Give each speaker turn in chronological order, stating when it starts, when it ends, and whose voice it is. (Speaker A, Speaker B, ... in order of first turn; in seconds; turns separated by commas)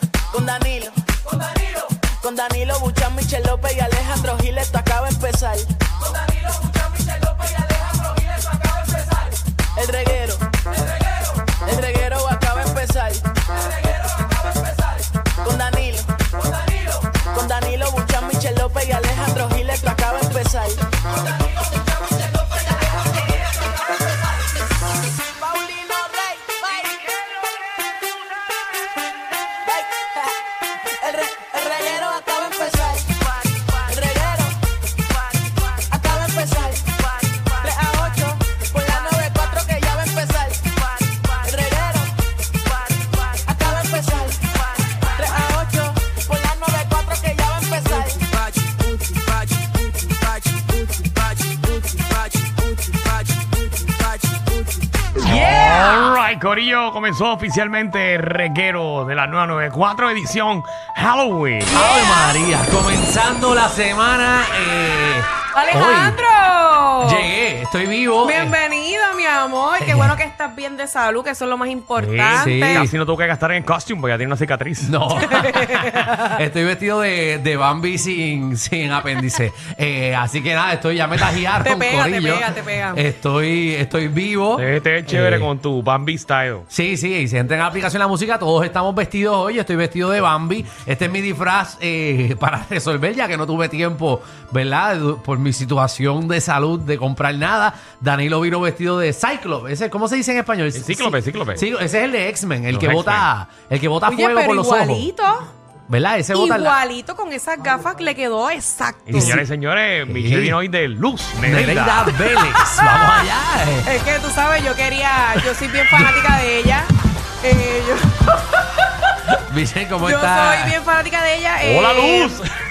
Speaker A: 0.3-1.1, Speaker A: 2.0-5.8, Speaker B: 7.3-7.8, Speaker B: 8.6-8.9, Speaker A: 9.8-10.6, Speaker A: 11.4-13.5, Speaker A: 15.4-20.9, Speaker A: 25.4-27.3, Speaker A: 29.6-34.6, Speaker A: 35.3-42.2, Speaker A: 42.7-54.5, Speaker C: 55.2-61.8, Speaker D: 55.3-56.0, Speaker B: 61.7-66.2, Speaker D: 61.8-62.2, Speaker D: 65.5-67.3, Speaker B: 67.0-68.6, Speaker D: 68.2-72.9, Speaker B: 69.8-70.2, Speaker C: 72.0-75.0, Speaker B: 72.3-72.9, Speaker B: 74.8-85.5, Speaker D: 75.1-76.4, Speaker D: 81.6-83.0, Speaker C: 84.6-86.7, Speaker B: 86.7-105.1, Speaker C: 100.7-101.7, Speaker C: 102.7-103.3, Speaker D: 104.1-105.5, Speaker B: 105.9-106.8, Speaker D: 106.3-109.4, Speaker C: 109.1-112.2, Speaker B: 109.1-109.4, Speaker B: 110.1-110.6, Speaker B: 111.4-113.9, Speaker D: 112.2-113.1, Speaker D: 113.8-119.0, Speaker B: 115.9-116.2, Speaker B: 119.3-120.8, Speaker D: 120.0-122.4, Speaker C: 121.6-122.5